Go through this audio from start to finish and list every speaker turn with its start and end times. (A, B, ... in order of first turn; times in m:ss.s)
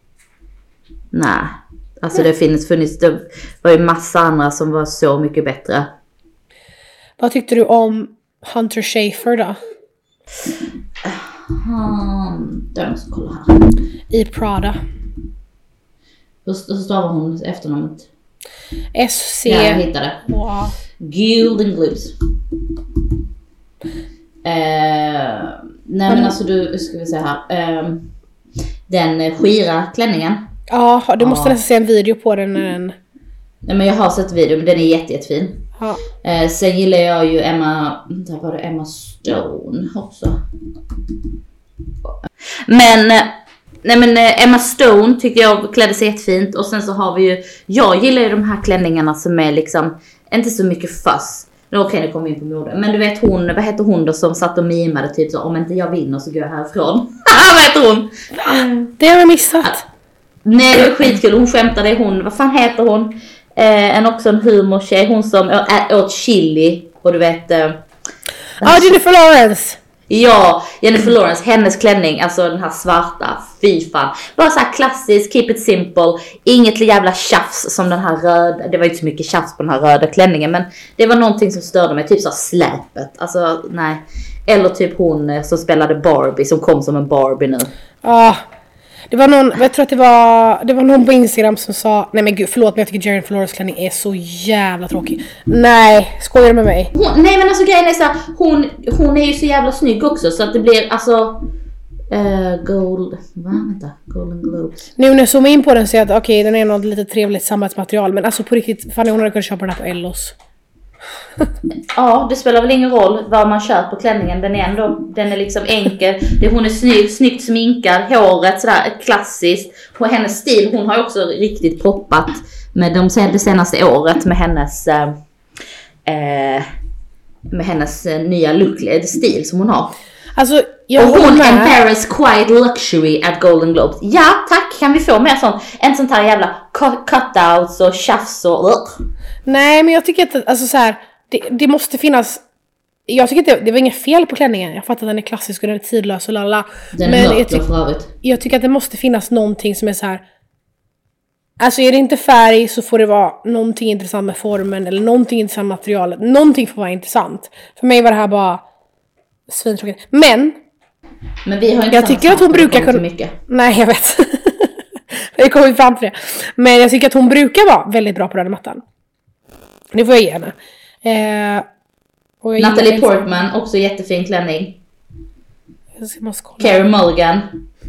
0:01.1-0:05.9 A
0:07.2-0:09.6 B
0:10.4-0:13.6 A
0:14.1-0:14.8 B
0:16.4-0:18.1 A
0:19.0-0:20.8 B
0:19.5-0:20.2 A
0:21.0-0:22.1 A
0:24.4-0:28.1 A
0:28.9-0:30.5 A
0:30.7-0:33.0 B
0:31.2-0:31.6 A
0:33.6-0:35.6 A
0:36.2-0:40.4 A
0:42.7-0:58.6 A
0:58.3-0:59.9 B
1:00.4-1:07.8 A
1:08.6-1:09.8 B
1:08.6-1:08.9 A
1:10.1-1:27.7 A
1:28.0-1:28.4 B
1:29.1-1:36.9 B
1:36.9-1:41.4 A
1:42.1-1:44.9 A
1:45.0-1:50.4 B
1:51.9-2:05.2 A
2:06.1-2:06.6 A
2:07.5-2:10.0 A
2:10.4-2:11.8 B
2:11.0-2:19.0 A
2:19.5-2:22.4 B
2:23.1-2:27.6 B
2:26.9-2:28.1 A
2:28.2-2:30.2 B
2:31.6-2:38.6 B
2:39.5-2:40.6 B
2:41.4-2:43.4 A
2:41.9-2:48.8 B
2:49.9-2:51.6 B
2:52.4-2:53.2 B
2:52.6-2:54.8 A
2:56.0-2:56.8 B
2:56.6-2:57.6 A